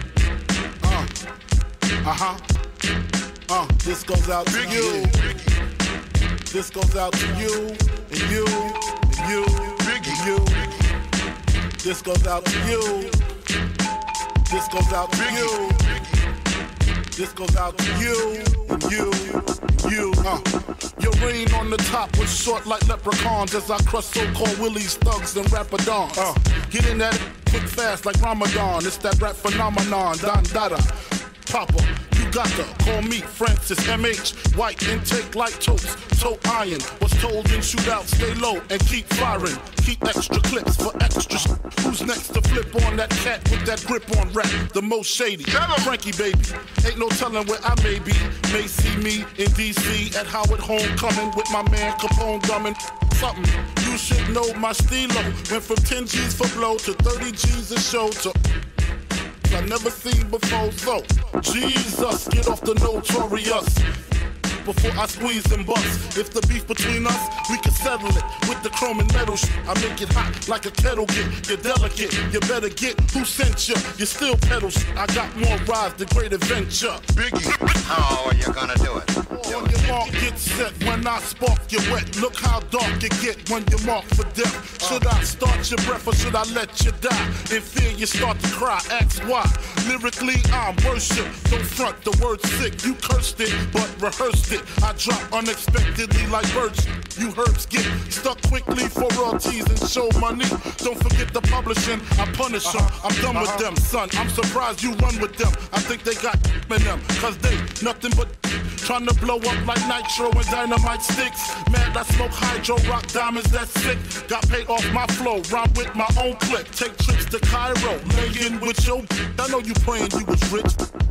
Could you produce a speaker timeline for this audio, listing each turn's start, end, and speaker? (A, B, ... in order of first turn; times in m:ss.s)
0:00.8-0:01.1 A
0:02.0-0:02.4 A
0:03.5-0:05.3 A
0:04.5-0:05.5 B
0:06.5-0:10.8 A
0:09.8-0:10.2 B
0:11.8-0:13.2 A
0:14.5-0:16.0 A
0:15.2-0:16.0 B
0:17.2-0:58.4 A
0:45.6-0:45.8 B
0:59.5-1:03.9 A
1:04.6-1:17.2 A
1:17.2-1:17.7 B
1:17.7-1:19.9 C
1:19.2-2:00.8 A